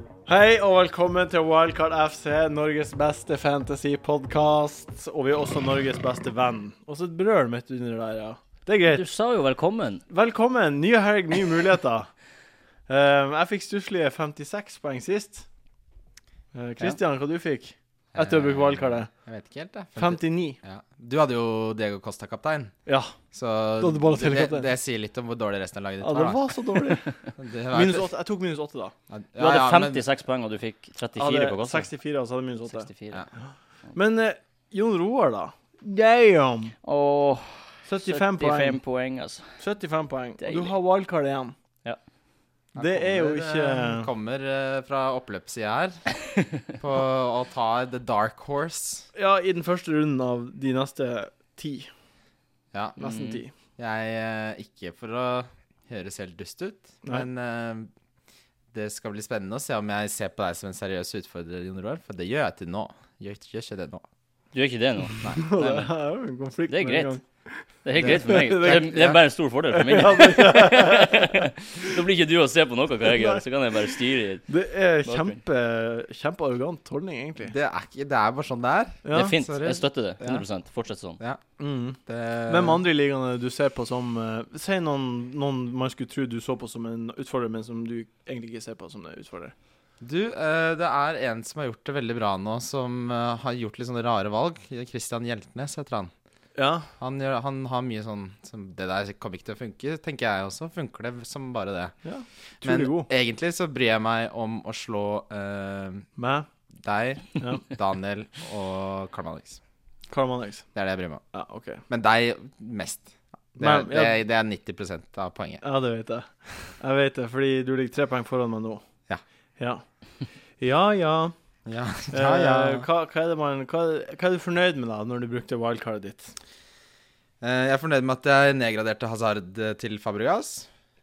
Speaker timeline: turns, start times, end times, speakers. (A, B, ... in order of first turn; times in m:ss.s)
0:00.2-0:09.0 A
0:08.8-0:10.0 B
0:10.1-0:12.1 A
0:12.9-0:15.4 A
0:16.5-0:19.1 A
0:18.1-0:22.7 C
0:20.0-0:20.6 A
0:22.8-0:23.1 A
0:23.3-0:26.6 C
0:23.8-0:24.7 A
0:26.0-0:27.2 A
0:27.3-0:28.1 C
0:27.7-0:28.9 A
0:29.1-0:30.0 C
0:29.4-0:31.9 B
0:31.2-0:32.9 A
0:32.7-0:33.2 B
0:33.9-0:36.7 A
0:36.8-0:39.6 B
0:37.8-0:38.8 A
0:39.6-0:41.5 A
0:40.4-0:40.7 B
0:42.7-0:46.1 C
0:42.8-0:44.1 A
0:46.8-0:49.1 C
0:49.1-0:51.9 A
0:52.7-0:57.9 C
0:53.0-0:53.5 A
0:58.7-1:04.0 C
1:04.5-1:05.9 B
1:05.3-1:11.5 A
1:06.7-1:07.1 B
1:07.8-1:14.5 B
1:08.0-1:08.8 C
1:13.0-1:13.4 A
1:14.5-1:17.5 A
1:15.0-1:15.4 B
1:17.4-1:20.4 C
1:19.0-1:19.3 A
1:19.1-1:21.2 B
1:21.6-1:29.5 A
1:22.0-1:22.8 C
1:30.0-1:36.1 C
1:36.5-1:36.9 A
1:37.0-1:41.9 C
1:42.0-1:43.1 A
1:42.6-1:46.0 C
1:46.2-1:46.5 A
1:46.8-1:49.6 C
1:47.4-1:47.6 A
1:50.1-1:50.6 A
1:50.7-1:51.2 C
1:51.3-1:51.8 A
1:51.9-1:55.6 C
1:53.6-1:54.2 A
1:55.6-1:58.8 A
1:59.6-1:59.8 A
2:00.6-2:01.3 A
2:01.6-2:02.8 C
2:02.1-2:06.3 A
2:07.4-2:10.7 C